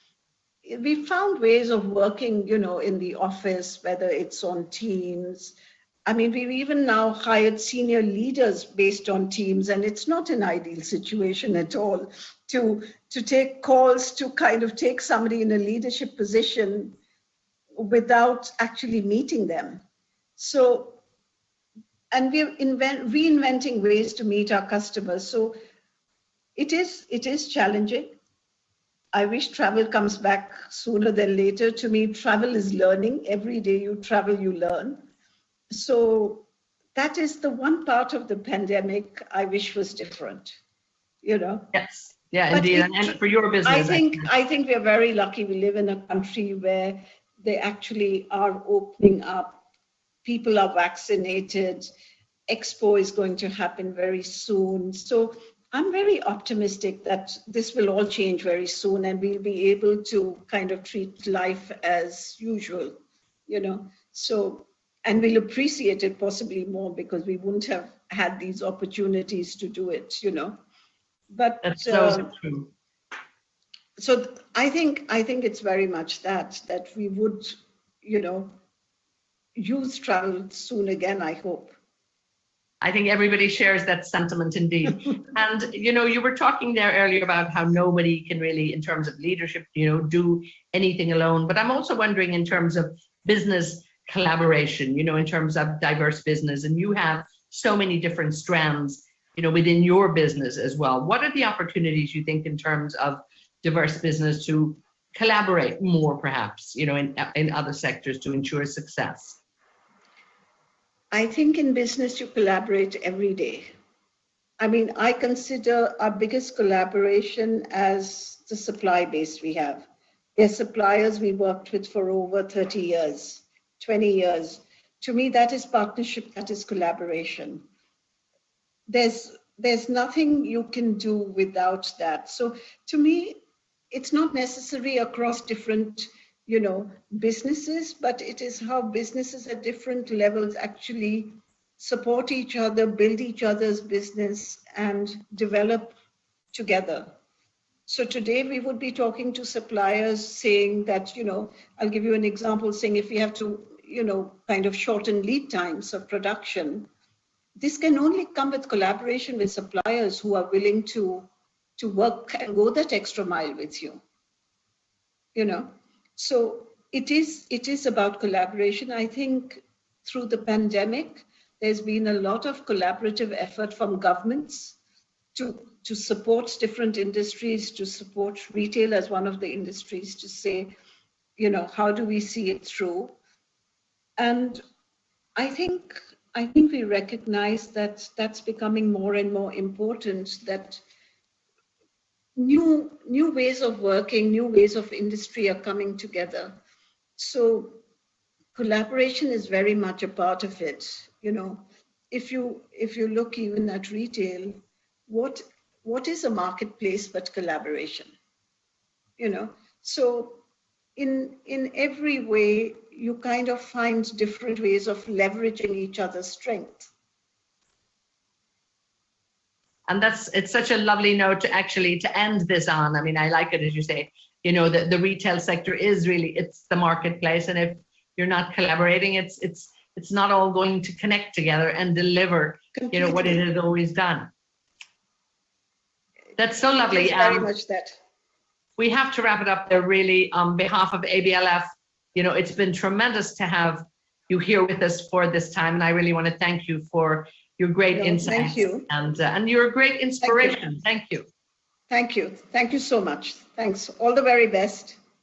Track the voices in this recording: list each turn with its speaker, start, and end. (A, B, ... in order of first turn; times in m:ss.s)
0:00.6-0:17.0 A
0:17.8-0:19.8 A
0:20.4-0:21.0 A
0:22.1-0:25.6 A
0:26.6-0:28.2 A
0:29.1-0:35.0 A
0:35.7-0:40.6 A
0:41.2-0:41.7 A
0:41.7-0:44.3 B
0:42.5-0:49.6 A
0:50.2-0:51.9 A
0:52.5-1:03.0 A
1:03.5-1:10.6 A
1:11.3-1:12.3 A
1:11.6-1:12.7 B
1:14.0-1:18.6 A
1:19.6-1:21.8 A
1:22.8-1:49.4 B
1:51.1-1:53.7 A
1:54.6-2:07.6 A
2:08.9-2:26.0 A
2:26.5-2:27.1 A
2:27.9-2:36.9 A
2:37.6-2:44.0 A
2:45.3-2:54.8 A
2:55.3-3:00.7 A
3:01.4-3:03.2 A
3:04.2-3:04.6 A
3:05.4-3:10.8 A
3:12.4-3:16.5 A
3:17.2-3:17.8 A
3:18.5-3:28.1 A
3:29.2-3:30.4 A
3:31.0-3:36.9 A
3:39.9-3:54.3 B
3:52.7-3:53.4 A
3:56.4-3:57.5 B
3:56.6-3:58.0 A
3:58.8-4:11.3 B
4:07.9-4:08.9 A
4:10.2-4:10.8 A
4:11.9-4:15.0 A